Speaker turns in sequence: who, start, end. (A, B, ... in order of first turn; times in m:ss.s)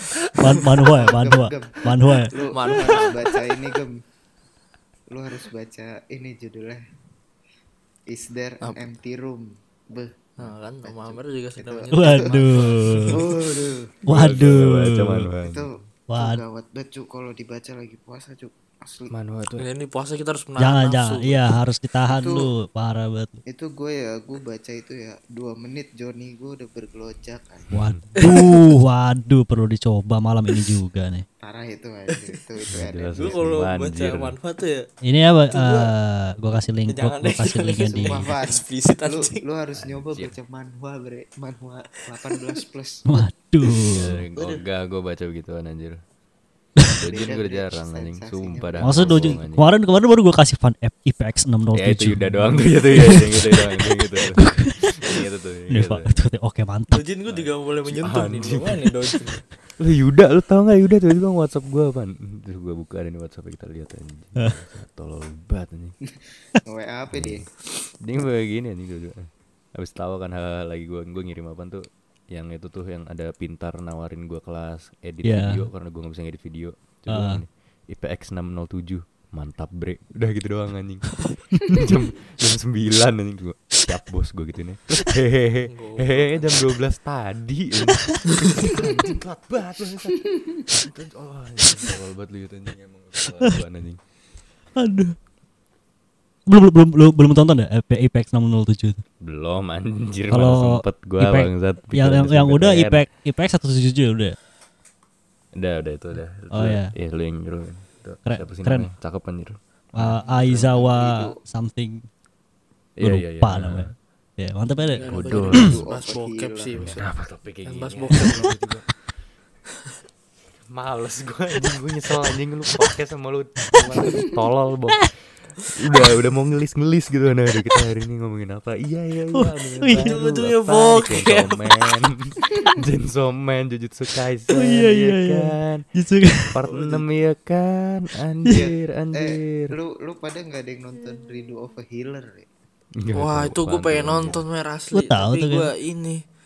0:00.3-0:02.3 A
0:00.8-0:04.0 B
0:02.4-0:03.6 C
0:05.1-0:06.8 B
0:08.1-0:14.0 B
0:10.4-0:13.4 C
0:11.9-0:13.2 A
0:14.0-0:15.3 A
0:14.0-0:15.7 D
0:15.4-0:19.1 B
0:16.1-0:16.4 A
0:19.1-0:19.7 D
0:19.6-0:21.4 C
0:20.6-0:23.4 A
0:22.1-0:22.5 B
0:23.5-0:27.7 B
0:27.7-0:28.1 D
0:27.7-0:31.2 A
0:28.2-0:28.5 C
0:31.4-0:33.5 B
0:32.1-0:32.4 C
0:32.7-0:34.3 D
0:33.1-0:34.9 C
0:35.0-0:38.3 A
0:35.5-0:35.9 C
0:36.9-0:39.4 C
0:37.8-0:43.2 B
0:39.8-0:40.3 D
0:42.2-0:42.6 C
0:43.0-0:44.2 A
0:43.9-0:46.0 D
0:44.3-0:44.6 C
0:46.8-0:49.4 B
0:46.9-0:49.7 D
0:48.8-0:55.2 A
0:51.7-0:56.1 D
0:55.7-0:57.0 A
0:56.9-0:59.4 C
0:57.3-0:58.9 D
0:59.8-1:06.0 D
1:06.2-1:07.5 B
1:07.1-1:07.4 D
1:08.0-1:34.0 D
1:15.2-1:15.6 A
1:17.1-1:17.4 A
1:25.7-1:26.6 C
1:27.9-1:28.2 A
1:28.3-1:28.5 C
1:30.3-1:30.6 B
1:34.8-1:35.2 A
1:36.5-1:39.0 A
1:39.2-1:43.0 D
1:40.3-1:44.4 A
1:45.5-1:50.2 D
1:46.5-1:46.9 A
1:48.2-1:48.9 A
1:49.9-1:52.0 A
1:50.2-1:51.4 B
1:53.0-1:53.9 D
1:53.0-1:55.6 A
1:54.9-1:57.0 C
1:55.0-1:55.8 D
1:55.1-1:57.0 B
1:56.8-1:58.9 D
1:57.6-1:58.6 C
2:00.7-2:05.1 D
2:05.7-2:15.8 D
2:09.3-2:10.1 A
2:10.0-2:12.0 C
2:14.5-2:16.6 A
2:16.5-2:19.7 D
2:16.7-2:17.0 C
2:18.5-2:22.5 B
2:23.0-2:24.4 D
2:23.1-2:26.2 C
2:24.9-2:25.7 A